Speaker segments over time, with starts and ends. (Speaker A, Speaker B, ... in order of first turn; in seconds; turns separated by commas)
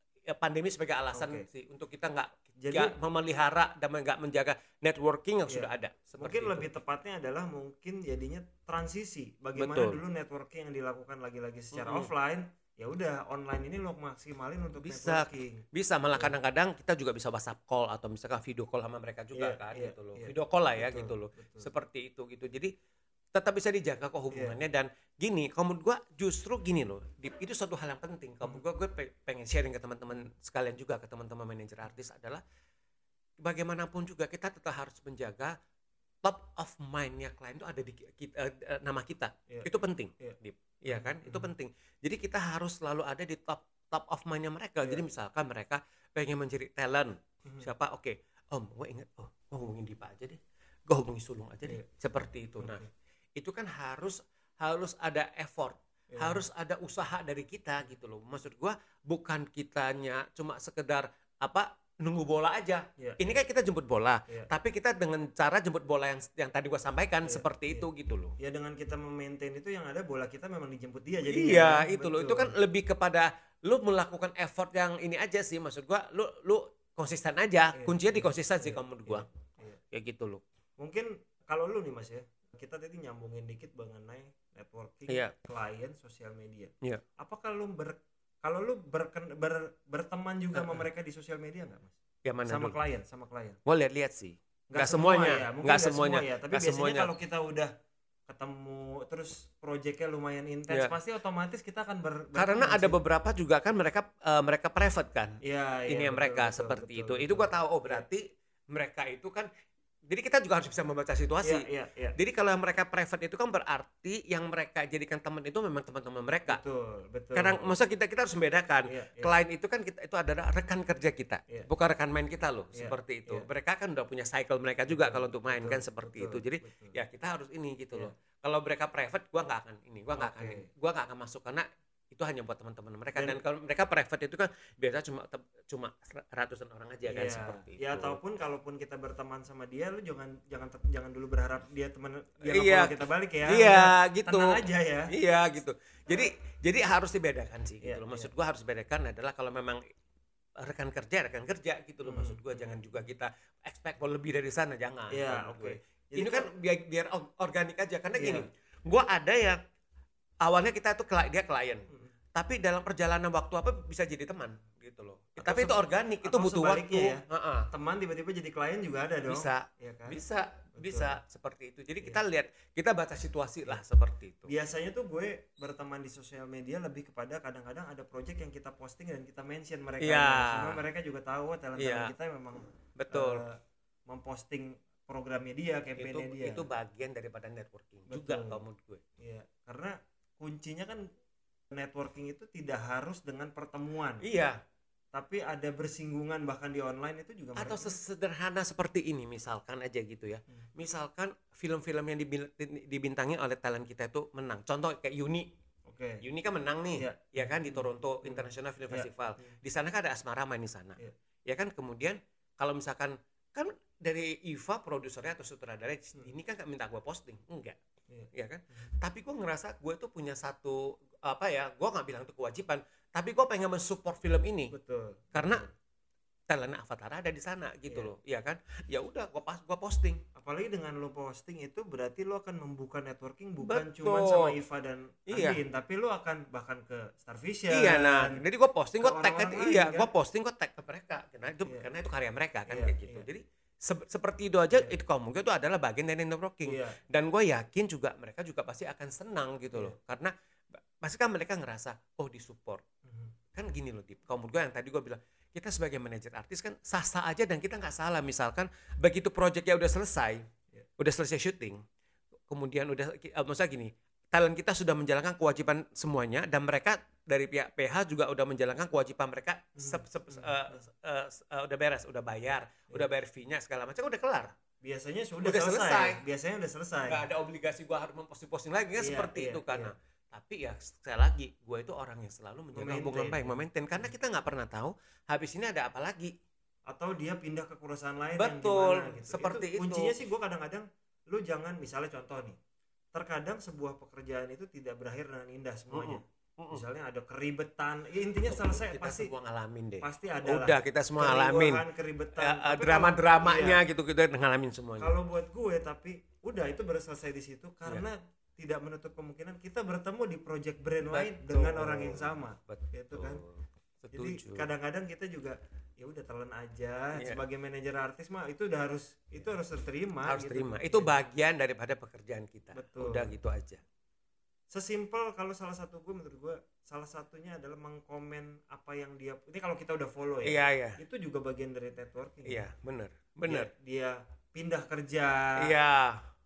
Speaker A: 0.3-6.7, Speaker B: 1.1-1.5, Speaker B: 2.6-2.9, Speaker B: 5.5-16.3, Speaker A: 9.6-10.0, Speaker A: 11.7-12.1, Speaker A: 14.8-22.7, Speaker B: 19.3-21.7, Speaker A: 23.3-32.4, Speaker B: 24.3-24.6, Speaker A: 33.4-35.5, Speaker A: 36.2-52.8, Speaker B: 39.5-41.5, Speaker B: 52.6-52.9, Speaker A: 53.4-68.3, Speaker B: 56.1-56.4, Speaker B: 63.0-63.2, Speaker B: 67.2-67.9, Speaker B: 68.4-72.5, Speaker A: 71.2-79.3, Speaker B: 77.7-79.8, Speaker A: 79.9-80.4, Speaker B: 80.8-93.6, Speaker A: 90.5-90.8, Speaker A: 92.2-92.8, Speaker A: 93.7-97.1, Speaker B: 94.7-97.7, Speaker B: 98.3-103.0, Speaker A: 100.7-101.0, Speaker A: 102.3-109.5, Speaker B: 105.4-108.1, Speaker A: 110.1-116.6, Speaker B: 111.4-112.2, Speaker B: 116.5-117.8, Speaker A: 117.3-138.2, Speaker B: 118.9-119.3, Speaker B: 122.7-123.5, Speaker B: 124.9-127.0, Speaker B: 130.2-130.7, Speaker B: 133.1-133.4, Speaker B: 137.1-145.1, Speaker A: 142.5-144.6, Speaker A: 145.1-149.8, Speaker B: 147.8-148.3, Speaker A: 150.6-159.6, Speaker B: 152.0-153.0, Speaker B: 155.1-156.5, Speaker B: 158.1-158.5, Speaker A: 160.4-167.7, Speaker B: 165.4-170.2, Speaker A: 169.3-174.5, Speaker B: 170.8-171.2, Speaker B: 174.4-186.7, Speaker A: 180.0-180.8, Speaker A: 181.8-182.1, Speaker A: 183.0-183.4, Speaker A: 186.0-189.0, Speaker B: 188.1-188.6, Speaker B: 189.2-191.1, Speaker B: 191.7-194.3, Speaker A: 194.2-194.6, Speaker B: 195.1-197.9, Speaker A: 197.6-205.5, Speaker B: 205.9-206.2, Speaker A: 206.2-217.8, Speaker B: 207.0-209.5, Speaker B: 218.1-218.9, Speaker A: 218.3-224.7, Speaker B: 224.7-225.7, Speaker A: 225.3-225.6, Speaker A: 226.5-230.2, Speaker B: 230.3-238.4, Speaker A: 233.6-234.6, Speaker A: 235.3-235.6, Speaker A: 237.7-250.3, Speaker B: 239.0-240.1, Speaker B: 242.7-243.3, Speaker B: 246.6-247.0, Speaker A: 251.0-252.8, Speaker B: 253.1-253.3, Speaker A: 253.6-260.4, Speaker A: 261.0-261.8, Speaker A: 262.5-274.5, Speaker B: 269.8-270.9, Speaker B: 274.8-277.3, Speaker A: 275.4-276.2, Speaker A: 277.1-286.3, Speaker B: 279.0-279.9, Speaker B: 282.7-284.1, Speaker B: 286.9-292.6, Speaker A: 288.4-290.1, Speaker B: 293.1-299.3, Speaker A: 295.9-296.8, Speaker A: 298.5-301.8, Speaker B: 300.0-303.8, Speaker A: 302.4-305.1, Speaker B: 305.0-313.4, Speaker A: 311.1-314.7, Speaker B: 314.1-321.1, Speaker A: 317.1-317.4, Speaker A: 320.3-323.8, Speaker B: 322.7-323.4, Speaker B: 324.7-332.6, Speaker A: 330.4-331.0, Speaker A: 332.5-333.7, Speaker B: 333.4-335.7, Speaker A: 335.6-336.2